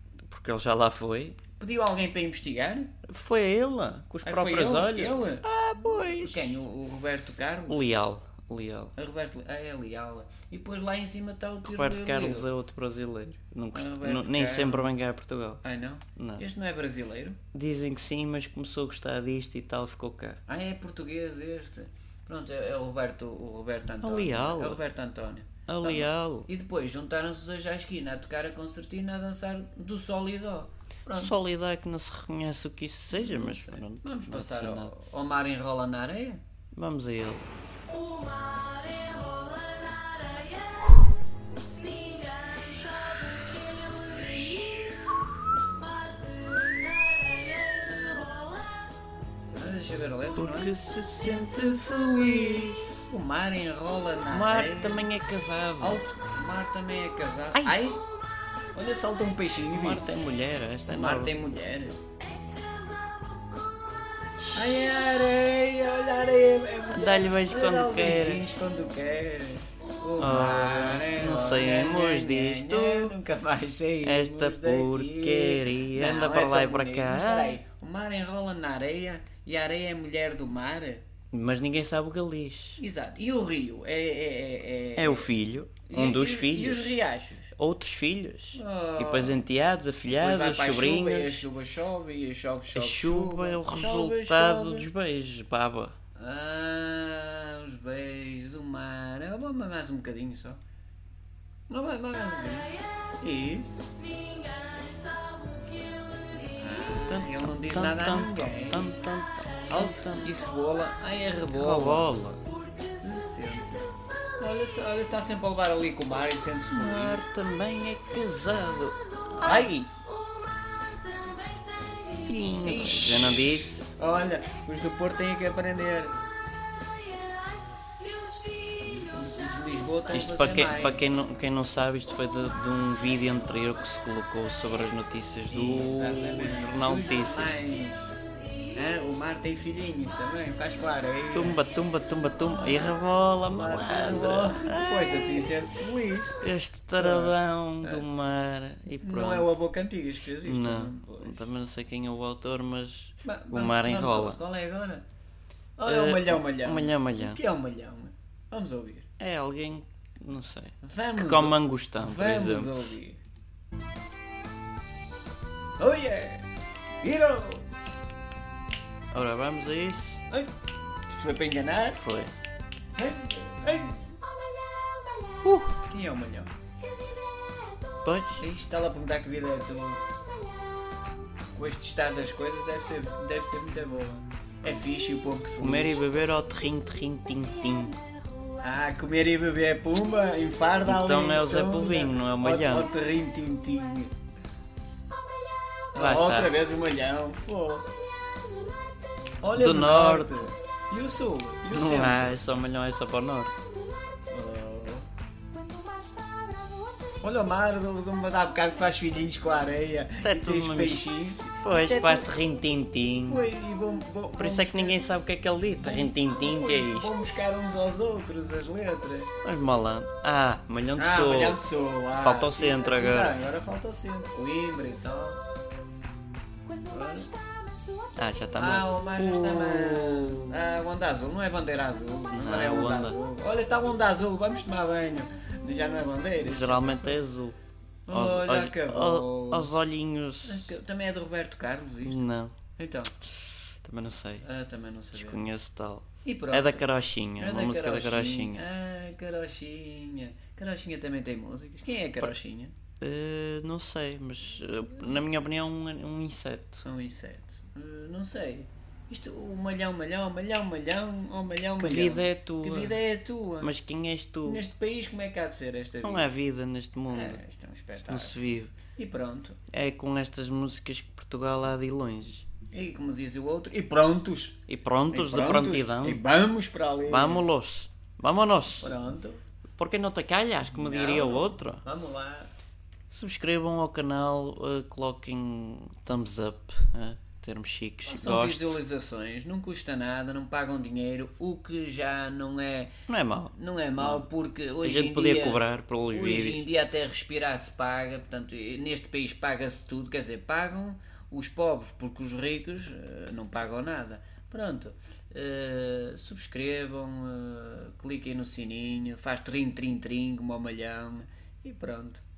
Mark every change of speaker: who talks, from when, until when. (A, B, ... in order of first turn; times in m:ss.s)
0:00.3-0:01.4 A
0:01.6-0:02.9 B
0:03.1-0:06.5 A
0:04.2-0:07.9 B
0:07.7-0:08.9 A
0:09.0-0:12.5 B
0:11.6-0:15.6 A
0:13.7-0:14.9 B
0:15.6-0:17.4 B
0:16.2-0:16.4 A
0:17.5-0:20.4 A
0:20.5-0:31.4 B
0:24.0-0:24.8 A
0:25.7-0:26.5 A
0:31.1-0:34.9 A
0:33.1-0:36.4 B
0:36.8-0:37.5 A
0:38.6-0:40.4 C
0:42.0-0:42.3 C
0:49.6-0:50.7 B
0:50.4-0:52.8 A
0:53.1-0:55.1 B
0:54.3-0:56.0 A
0:55.8-0:58.0 B
0:58.7-1:00.2 B
0:59.7-1:01.3 A
1:00.9-1:02.0 B
1:04.4-1:04.7 A
1:04.5-1:21.0 B
1:06.9-1:08.4 A
1:10.2-1:13.1 A
1:14.0-1:17.6 A
1:21.3-1:22.8 A
1:22.8-1:25.3 B
1:25.0-1:27.0 A
1:25.9-1:27.5 B
1:27.6-1:31.4 A
1:28.5-1:29.4 B
1:30.1-1:34.9 B
1:32.7-1:36.0 A
1:36.2-1:40.6 B
1:41.7-1:43.9 B
1:44.4-1:46.3 C
1:46.4-1:49.0 B
1:47.1-1:50.4 A
1:49.7-1:52.2 B
1:51.5-1:52.4 A
1:53.0-1:57.2 B
1:56.7-1:59.9 A
1:59.4-1:59.8 B
2:02.1-2:03.8 A
2:02.5-2:06.1 B
2:08.3-2:08.6 C
2:08.8-2:11.0 B
2:10.1-2:17.6 A
2:15.5-2:18.1 B
2:18.8-2:21.6 B
2:21.3-2:25.2 A
2:22.5-2:26.4 B
2:26.4-2:29.5 A
2:27.0-2:28.0 B
2:29.0-2:31.4 B
2:30.4-2:34.4 A
2:33.2-2:35.0 B
2:35.8-2:39.1 B
2:35.9-2:37.4 A
2:39.2-2:42.9 A
2:40.8-2:43.2 B
2:45.8-2:46.4 B
2:47.0-2:47.7 B
2:49.1-2:50.2 A
2:51.1-2:52.0 B
2:51.9-2:52.3 A
2:53.0-2:54.1 B
2:55.4-2:55.8 A
2:55.9-2:56.5 B
2:58.0-2:58.4 A
2:58.4-3:00.0 B
3:01.5-3:06.0 B
3:05.6-3:08.0 A
3:08.6-3:14.1 B
3:10.8-3:12.9 A
3:15.9-3:17.9 B
3:16.0-3:16.5 A
3:19.4-3:22.4 B
3:19.5-3:20.5 A
3:21.7-3:23.6 A
3:24.3-3:25.1 B
3:27.2-3:32.3 B
3:30.2-3:33.4 A
3:33.3-3:35.0 B
3:34.4-3:37.1 A
3:35.8-3:39.3 B
3:39.4-3:41.6 A
3:41.0-3:45.4 B
3:42.2-3:43.4 A
3:46.9-3:47.3 B
3:48.2-3:50.6 A
3:48.6-3:57.2 B
3:52.3-3:53.2 A
3:56.4-3:57.6 A
3:58.1-3:59.7 B
3:58.1-4:00.7 A
4:00.4-4:02.2 B
4:02.0-4:02.5 A
4:02.8-4:03.1 B
4:03.7-4:04.4 A
4:04.4-4:05.5 B
4:05.2-4:08.6 A
4:06.2-4:12.7 B
4:13.0-4:16.8 A
4:16.8-4:23.7 B
4:21.8-4:23.0 A
4:23.6-4:24.6 A
4:24.4-4:26.3 B
4:26.0-4:27.4 A
4:27.1-4:28.4 B
4:28.0-4:28.7 A
4:29.0-4:29.6 B
4:29.7-4:32.5 A
4:32.7-4:37.5 B
4:34.7-4:36.2 A
4:37.1-4:38.9 A
4:38.8-4:39.4 B
4:39.8-4:41.8 A
4:40.7-4:42.5 B
4:43.1-4:48.8 A
4:48.1-4:52.9 B
4:53.1-4:54.2 A
4:53.5-5:12.2 B
4:54.8-4:56.6 A